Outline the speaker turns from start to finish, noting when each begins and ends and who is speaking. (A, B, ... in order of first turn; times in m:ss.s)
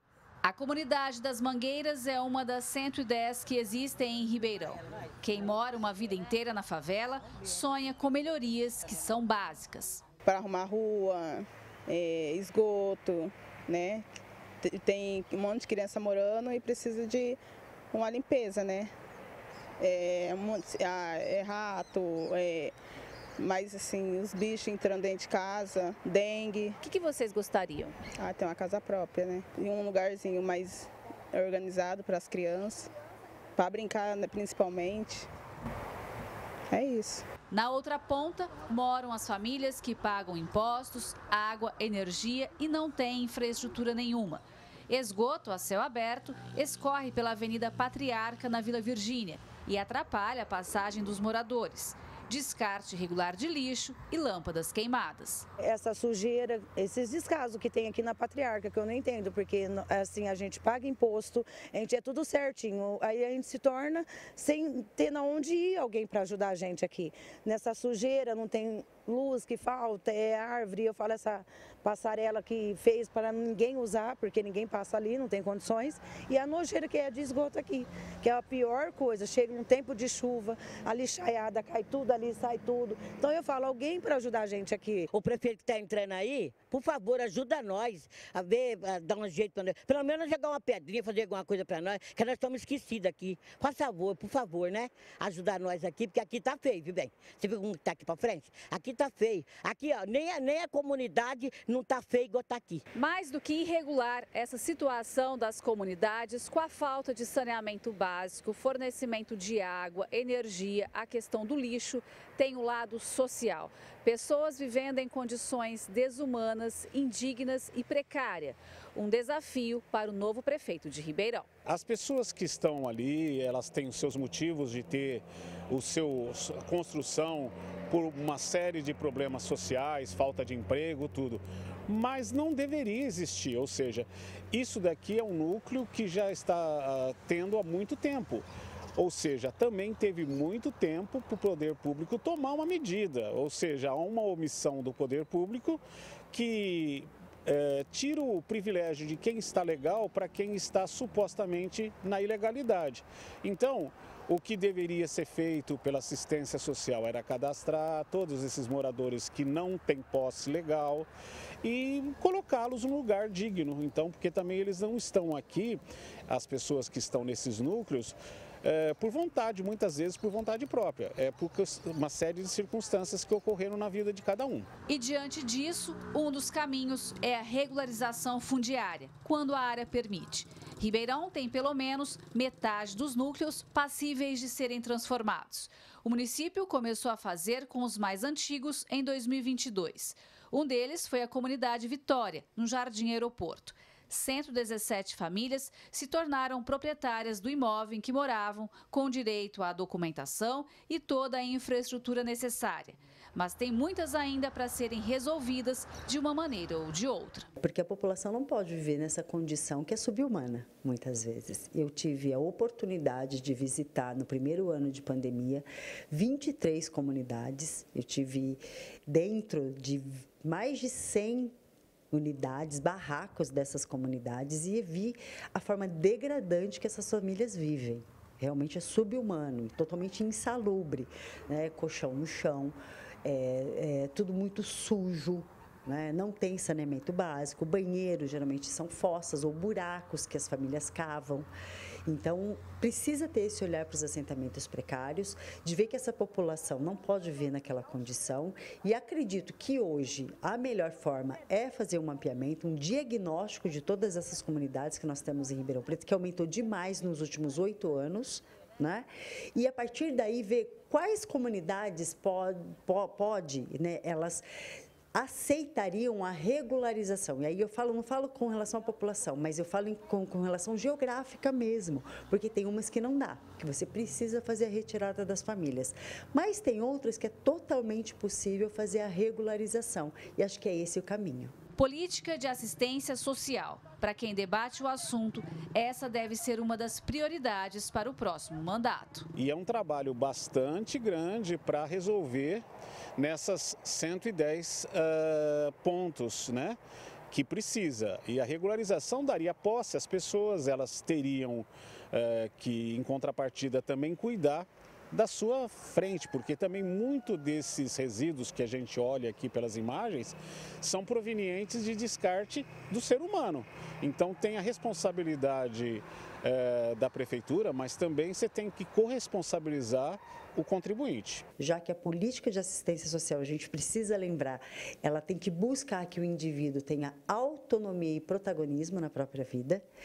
0:00.4-0:10.0 A
0:10.2-0:14.0 B
0:14.6-0:17.4 B
0:17.9-0:18.9 B
0:19.8-0:22.7 B
0:23.4-0:26.7 B
0:26.8-0:28.0 A
0:28.2-0:32.9 B
0:33.6-0:35.3 B
0:36.7-0:37.2 B
0:37.5-0:55.5 A
0:55.7-1:25.0 C
1:25.1-1:42.8 D
1:42.9-2:01.5 A
2:01.6-2:18.4 E
2:19.0-2:41.1 E
2:41.6-2:54.7 E
2:54.9-3:27.5 A
3:27.6-3:41.5 F
3:42.1-4:01.5 F
4:02.0-4:24.4 F
4:25.1-4:41.5 F
4:41.8-4:49.3 A
4:49.3-4:52.6 E
4:53.2-4:56.8 E
4:57.3-5:21.4 E
5:21.6-5:29.8 F